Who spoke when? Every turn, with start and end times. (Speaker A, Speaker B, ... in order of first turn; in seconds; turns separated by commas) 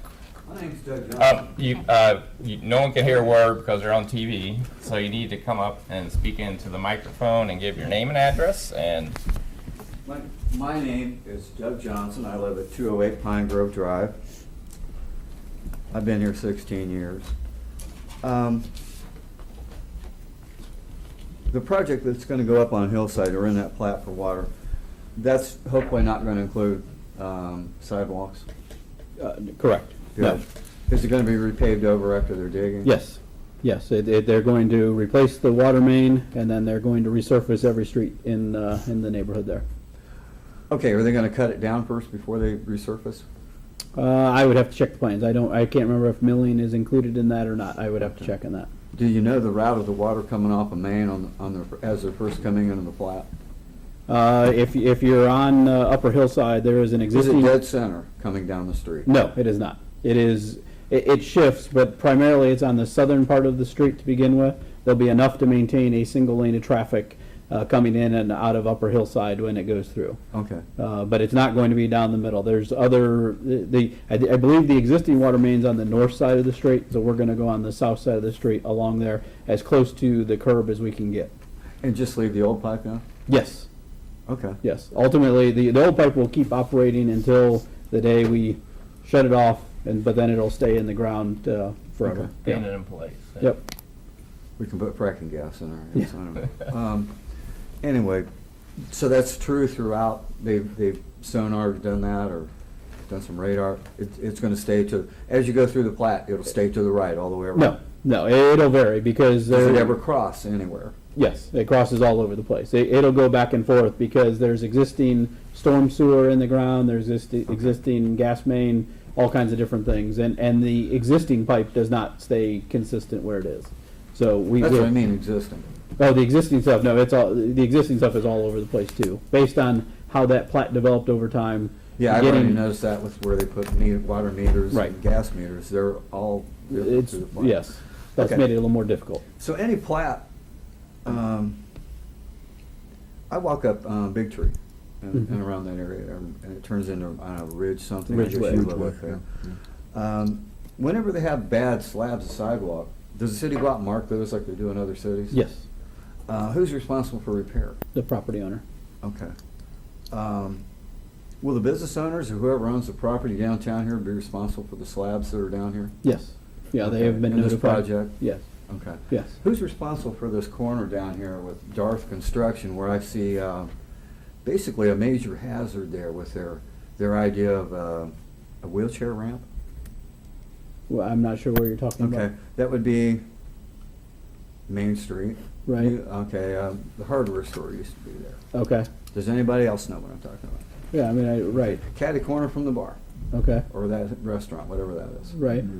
Speaker A: 0.5-1.5, Speaker B: 1.2-9.2, Speaker A: 10.1-14.2, Speaker A: 15.9-17.3, Speaker A: 18.2-18.7, Speaker A: 21.5-24.5, Speaker A: 25.2-28.5, Speaker C: 29.2-30.4, Speaker A: 30.2-32.9, Speaker C: 32.8-39.6, Speaker A: 40.7-43.2, Speaker C: 44.0-48.7, Speaker A: 48.9-53.3, Speaker C: 54.1-57.6, Speaker A: 57.1-59.1, Speaker C: 59.0-70.2, Speaker A: 70.3-70.7, Speaker C: 70.8-81.3, Speaker A: 81.8-83.0, Speaker C: 83.3-83.7, Speaker A: 84.3-84.6, Speaker C: 84.6-92.7, Speaker A: 92.0-92.3, Speaker B: 92.5-93.5, Speaker A: 94.6-97.1, Speaker A: 97.8-98.3, Speaker A: 98.9-102.5, Speaker A: 103.1-107.8, Speaker C: 107.5-110.0, Speaker A: 109.5-111.0, Speaker C: 111.2-124.9, Speaker A: 124.6-125.7, Speaker C: 126.0-132.6, Speaker A: 132.0-137.6, Speaker C: 136.7-139.2, Speaker A: 138.2-138.4, Speaker A: 139.4-140.2, Speaker A: 141.1-141.6, Speaker A: 143.3-149.2, Speaker C: 148.1-148.9, Speaker A: 149.9-155.4, Speaker C: 155.3-155.7, Speaker A: 156.3-157.8, Speaker C: 157.9-158.6, Speaker A: 159.0-159.3, Speaker A: 160.1-160.6, Speaker A: 161.4-165.9, Speaker C: 166.0-168.5, Speaker A: 166.8-168.2, Speaker A: 168.7-173.7, Speaker C: 169.1-169.3, Speaker A: 174.4-179.4, Speaker C: 180.9-182.3, Speaker A: 182.0-183.2, Speaker A: 184.7-188.4, Speaker C: 185.7-185.9, Speaker C: 188.5-188.9, Speaker A: 189.1-190.7, Speaker C: 190.9-191.8, Speaker A: 191.6-193.0, Speaker C: 193.3-193.7, Speaker A: 193.7-195.3, Speaker C: 195.3-195.7